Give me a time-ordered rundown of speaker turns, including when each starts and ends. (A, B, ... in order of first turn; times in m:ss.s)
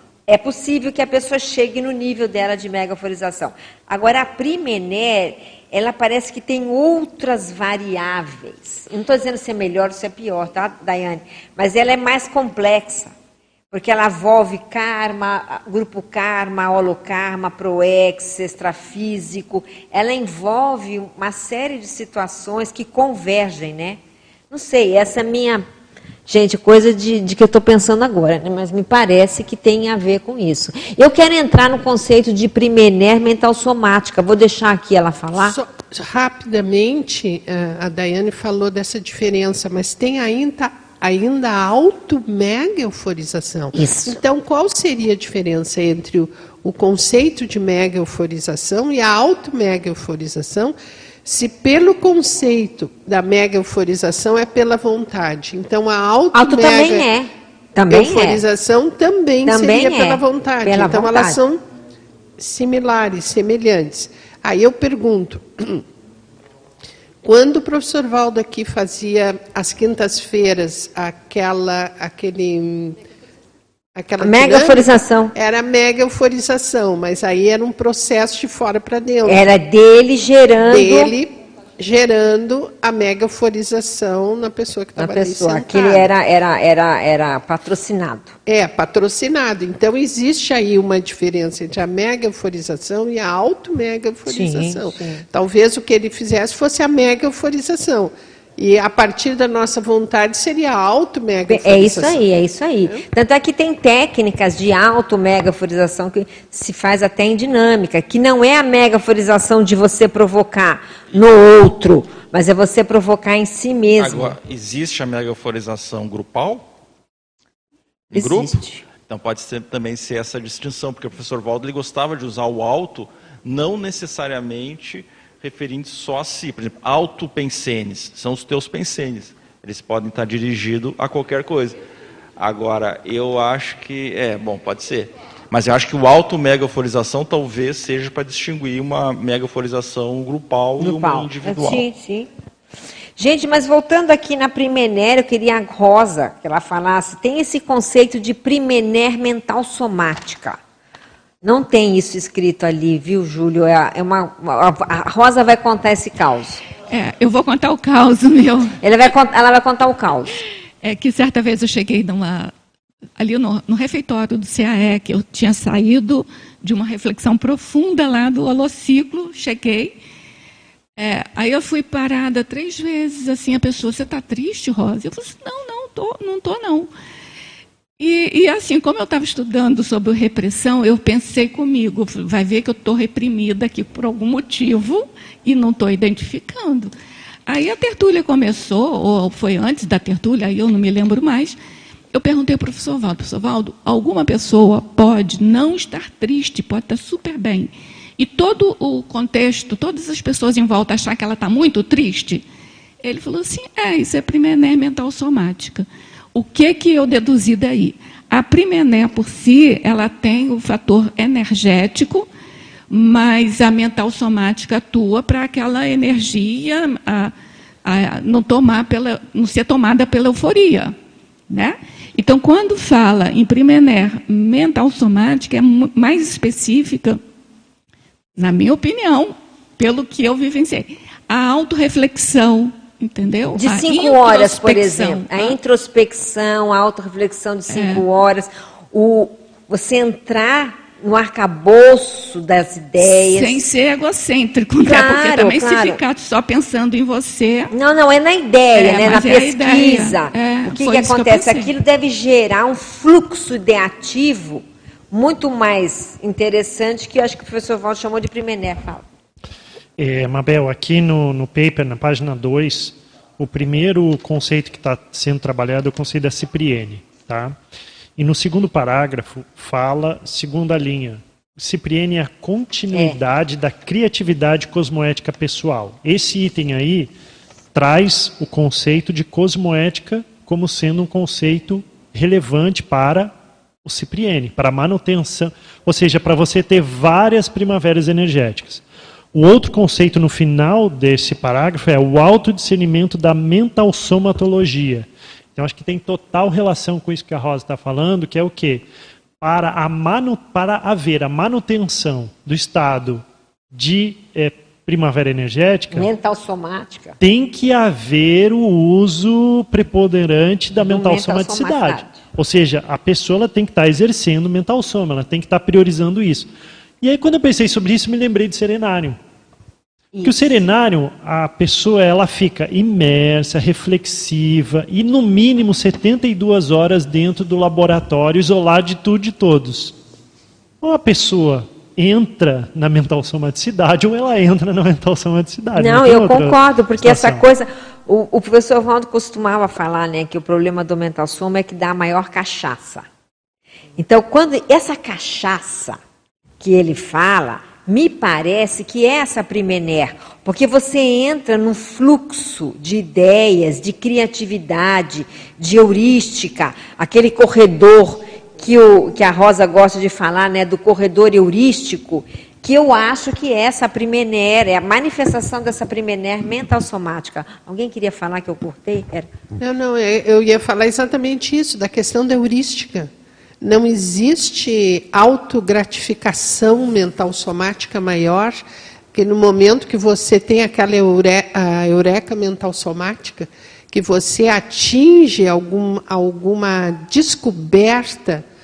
0:00.3-0:13.1 A
0:13.7-0:24.0 A
0:24.5-0:25.6 A
0:26.3-0:35.6 A
0:35.4-0:57.1 B
0:43.7-0:44.2 A
0:56.3-0:58.4 A
0:57.9-1:01.6 B
0:59.4-1:01.4 A
1:02.4-1:05.8 B
1:07.2-1:13.0 B
1:14.0-1:19.4 B
1:14.2-1:15.3 A
1:19.2-1:21.1 A
1:20.7-1:26.1 B
1:25.0-1:28.4 A
1:28.5-1:42.2 B
1:34.3-1:35.2 A
1:41.5-1:54.4 A
1:54.0-1:56.7 C
1:58.1-2:11.8 C
1:58.1-1:58.8 A
2:12.4-2:21.8 C
2:20.8-2:22.3 A
2:23.2-2:30.6 A
2:31.4-2:36.6 A
2:36.9-2:38.8 D
2:38.8-2:40.4 A
2:40.8-2:42.5 D
2:43.2-2:50.0 D
2:51.0-2:56.9 D
2:58.0-3:06.9 D
3:07.5-3:11.6 D
3:12.1-3:22.4 D
3:23.0-3:32.3 D
3:32.9-3:37.3 D
3:37.8-3:41.0 D
3:41.5-3:47.2 D
3:48.4-3:55.6 D
3:53.6-4:03.7 A
3:57.7-3:58.0 D
4:03.0-4:07.7 D
4:04.8-4:06.0 A
4:07.7-4:19.0 A
4:08.7-4:11.7 D
4:20.0-4:27.6 E
4:28.2-4:37.1 E
4:32.9-4:33.2 A
4:37.7-4:58.9 E
4:59.4-5:06.1 E
5:05.9-5:07.2 A
5:07.2-5:16.5 E
5:10.8-5:12.2 A
5:17.0-5:19.2 E
5:20.1-5:20.6 A
5:20.2-5:30.0 E
5:30.8-5:37.4 E
5:35.8-5:43.1 A
5:44.0-5:46.0 A
5:46.6-6:09.3 A
6:09.6-6:18.6 B
6:19.1-6:28.4 B